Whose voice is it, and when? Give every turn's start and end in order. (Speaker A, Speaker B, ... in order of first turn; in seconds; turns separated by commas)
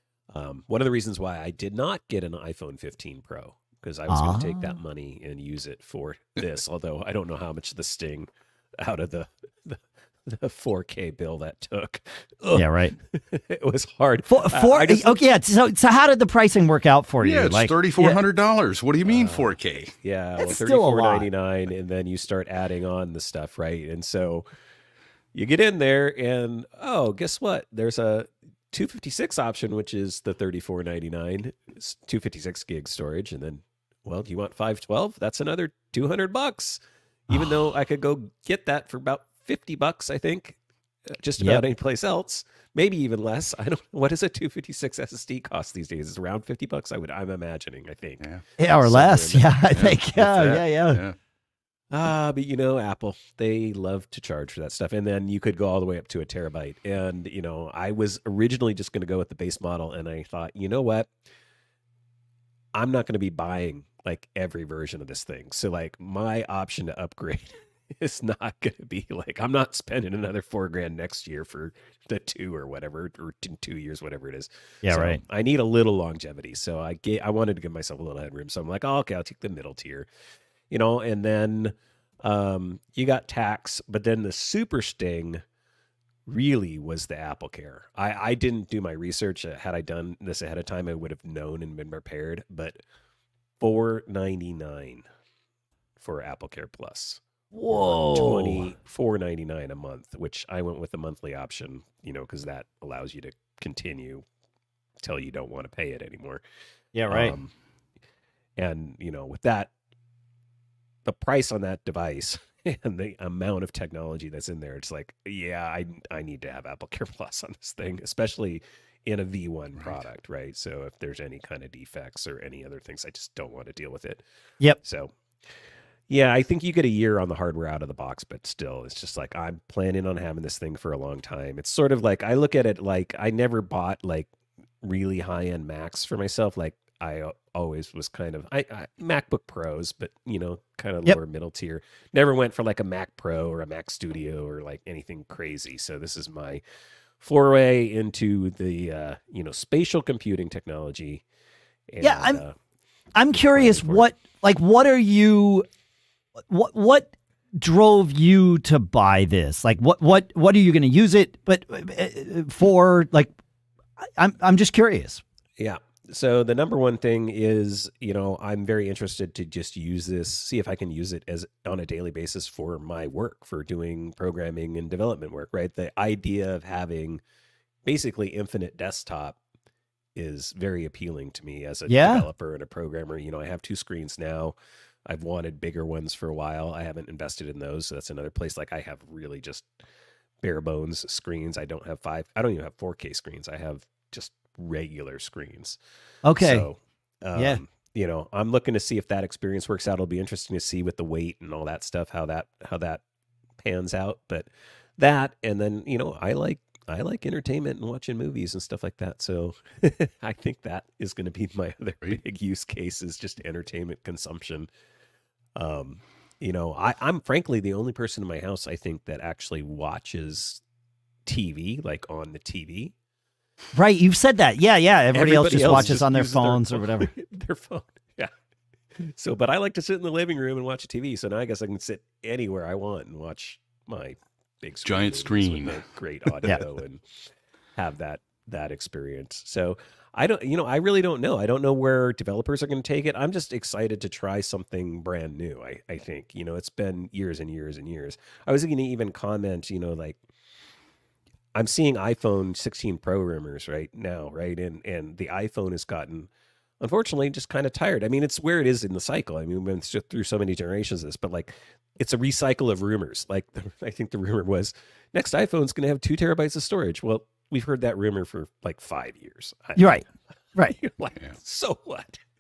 Speaker A: 0.3-8.3, Speaker B: 4.1-4.8, Speaker A: 8.8-15.2, Speaker B: 12.5-13.0, Speaker B: 14.3-18.2, Speaker C: 17.2-20.0, Speaker A: 19.1-24.4, Speaker B: 20.4-21.3, Speaker A: 25.3-48.2, Speaker B: 48.6-51.0, Speaker A: 48.8-49.6, Speaker C: 49.7-51.2, Speaker A: 51.9-61.1, Speaker A: 62.8-80.1, Speaker B: 74.8-75.2, Speaker A: 80.7-85.4, Speaker A: 86.3-92.8, Speaker A: 93.6-95.0, Speaker A: 96.0-104.2, Speaker B: 97.5-98.7, Speaker A: 105.0-106.4, Speaker B: 107.0-107.3, Speaker A: 107.1-107.5, Speaker A: 108.6-109.7, Speaker A: 111.0-124.2, Speaker A: 124.8-125.1, Speaker A: 126.1-134.3, Speaker A: 134.8-146.6, Speaker A: 147.2-151.2, Speaker A: 151.9-152.6, Speaker B: 152.0-152.4, Speaker B: 153.2-155.7, Speaker A: 153.3-154.1, Speaker B: 156.5-163.3, Speaker B: 164.0-165.2, Speaker A: 165.6-177.2, Speaker A: 177.8-179.4, Speaker A: 180.2-189.7, Speaker B: 181.9-182.3, Speaker A: 190.4-195.8, Speaker B: 196.2-196.7, Speaker A: 196.4-203.0, Speaker B: 197.3-197.6, Speaker A: 203.6-214.7, Speaker A: 215.6-220.6, Speaker A: 221.3-222.9, Speaker B: 223.8-227.1, Speaker A: 225.1-228.3, Speaker A: 229.0-237.0, Speaker C: 234.8-235.8, Speaker A: 237.8-250.2, Speaker A: 251.6-270.0, Speaker B: 269.8-270.8, Speaker A: 270.6-272.2